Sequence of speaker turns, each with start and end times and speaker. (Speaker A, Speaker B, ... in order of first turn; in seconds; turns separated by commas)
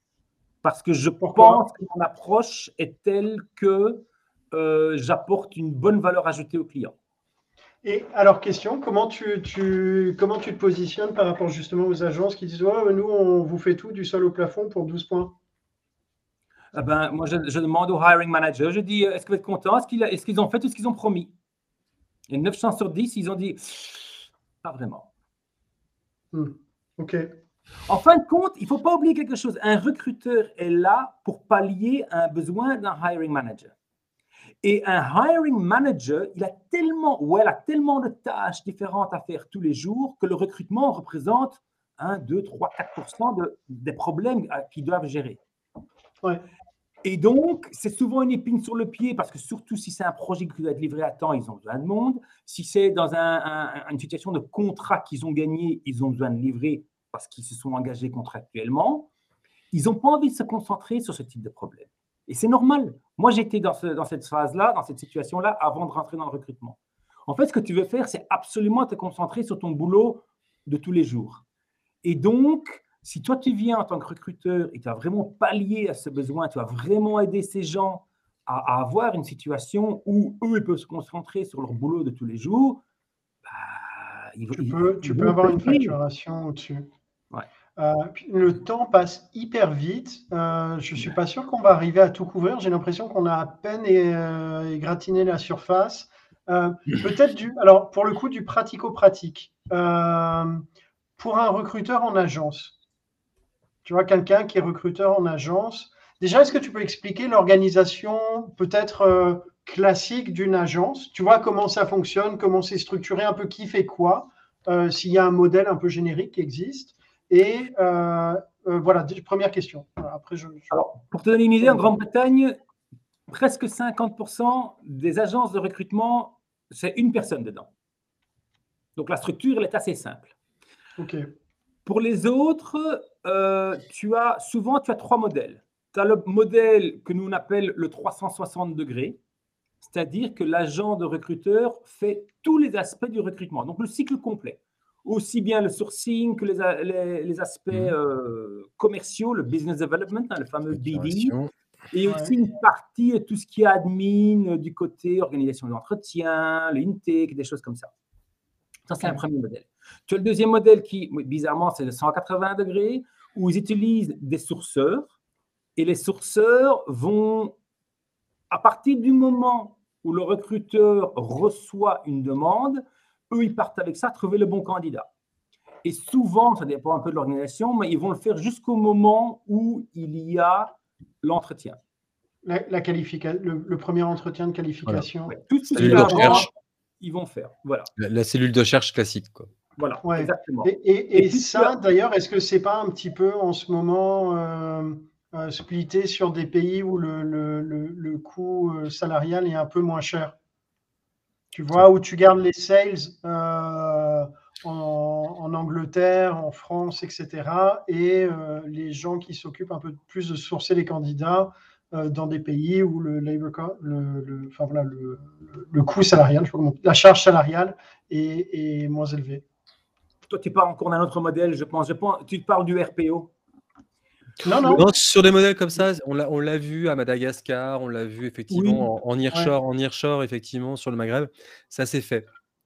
Speaker A: 0.6-6.9, Speaker B: 1.2-1.7, Speaker B: 7.8-15.4, Speaker A: 16.7-21.3, Speaker A: 22.3-25.1, Speaker B: 26.3-27.3, Speaker A: 27.9-33.7, Speaker A: 34.6-45.4, Speaker A: 47.0-59.1, Speaker A: 59.7-66.8, Speaker A: 67.3-71.4, Speaker A: 72.0-82.8, Speaker A: 83.4-86.0, Speaker B: 84.5-86.9, Speaker B: 87.8-100.6, Speaker B: 101.2-102.7, Speaker B: 103.8-120.7, Speaker A: 120.7-122.6, Speaker B: 121.6-121.9, Speaker A: 123.3-127.7, Speaker A: 129.0-130.3, Speaker B: 131.0-131.3, Speaker A: 131.9-139.2, Speaker A: 139.8-151.4, Speaker C: 147.7-147.9, Speaker C: 150.7-151.5, Speaker A: 151.9-157.9, Speaker B: 152.0-152.3, Speaker A: 158.9-165.1, Speaker A: 165.8-167.6, Speaker A: 168.5-175.1, Speaker A: 175.8-181.8, Speaker B: 182.4-186.5, Speaker A: 185.3-187.9, Speaker C: 185.8-186.5, Speaker C: 188.0-189.5, Speaker A: 189.8-191.7, Speaker B: 190.0-200.4, Speaker B: 201.5-219.4, Speaker A: 220.3-223.3, Speaker B: 224.4-224.8, Speaker C: 224.7-232.3, Speaker A: 228.5-228.9